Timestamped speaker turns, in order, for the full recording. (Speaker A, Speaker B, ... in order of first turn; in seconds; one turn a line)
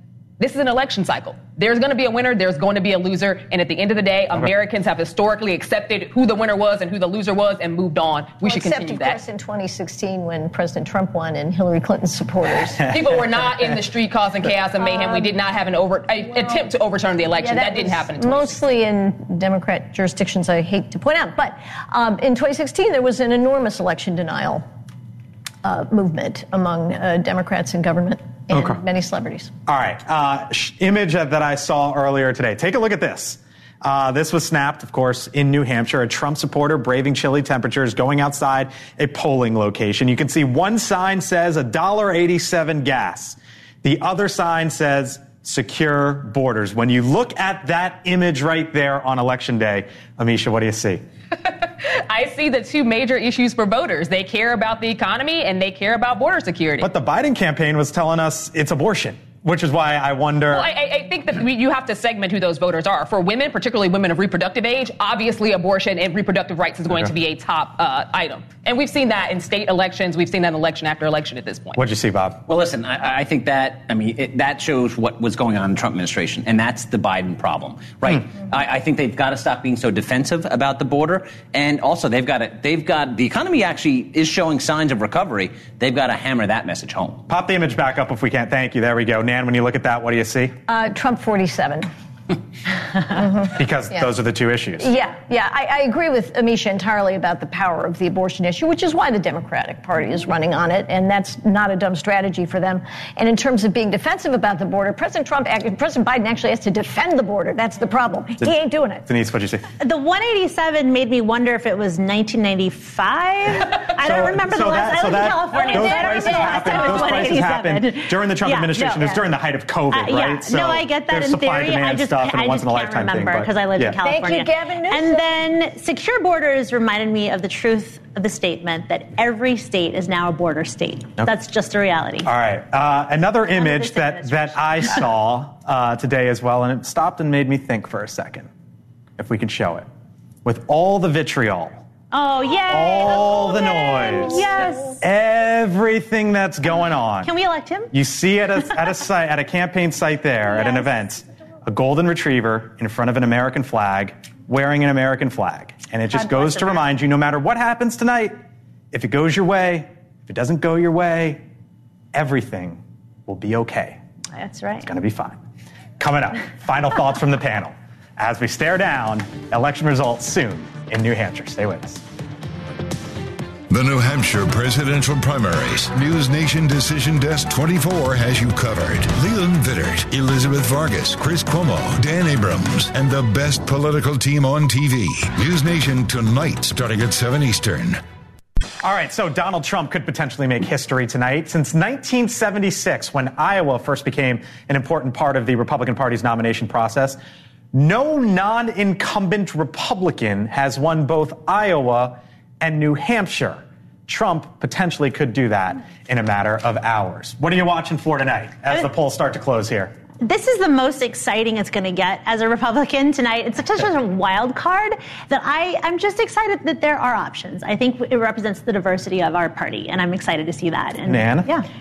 Speaker A: 0.4-9.2
Speaker B: 8.4-12.8
Speaker A: 12.9-18.6
Speaker B: 14.8-15.3
Speaker B: 17.4-24.6
Speaker B: 25.6-29.5
Speaker C: 28.5-28.8
Speaker C: 29.7-51.0
Speaker A: 51.6-56.9
Speaker C: 56.8-60.7
Speaker A: 60.5-71.8
Speaker C: 71.8-72.4
Speaker D: 72.5-87.2
Speaker C: 87.3-90.6
Speaker B: 90.7-91.9
Speaker B: 93.1-94.1
Speaker C: 93.6-94.9
Speaker B: 94.8-109.0
Speaker C: 109.1-109.7
Speaker E: 109.8-119.2
Speaker C: 114.0-124.0
Speaker B: 115.7-117.1
Speaker E: 119.9-132.3
Speaker B: 124.0-125.4
Speaker C: 132.2-138.5
Speaker E: 133.4-135.1
Speaker C: 139.2-139.9
Speaker C: 140.4-141.8
Speaker E: 142.1-145.0
Speaker C: 142.7-147.3
Speaker E: 146.8-147.9
Speaker C: 147.9-158.3
Speaker E: 150.5-150.8
Speaker E: 156.1-156.8
Speaker C: 158.9-161.4
Speaker C: 162.1-164.0
Speaker E: 164.4-164.9
Speaker C: 164.8-165.4
Speaker C: 166.0-172.0
Speaker F: 173.7-187.9
Speaker C: 188.8-197.2
Speaker C: 197.7-209.9
Speaker E: 210.2-221.6
Speaker C: 221.1-221.5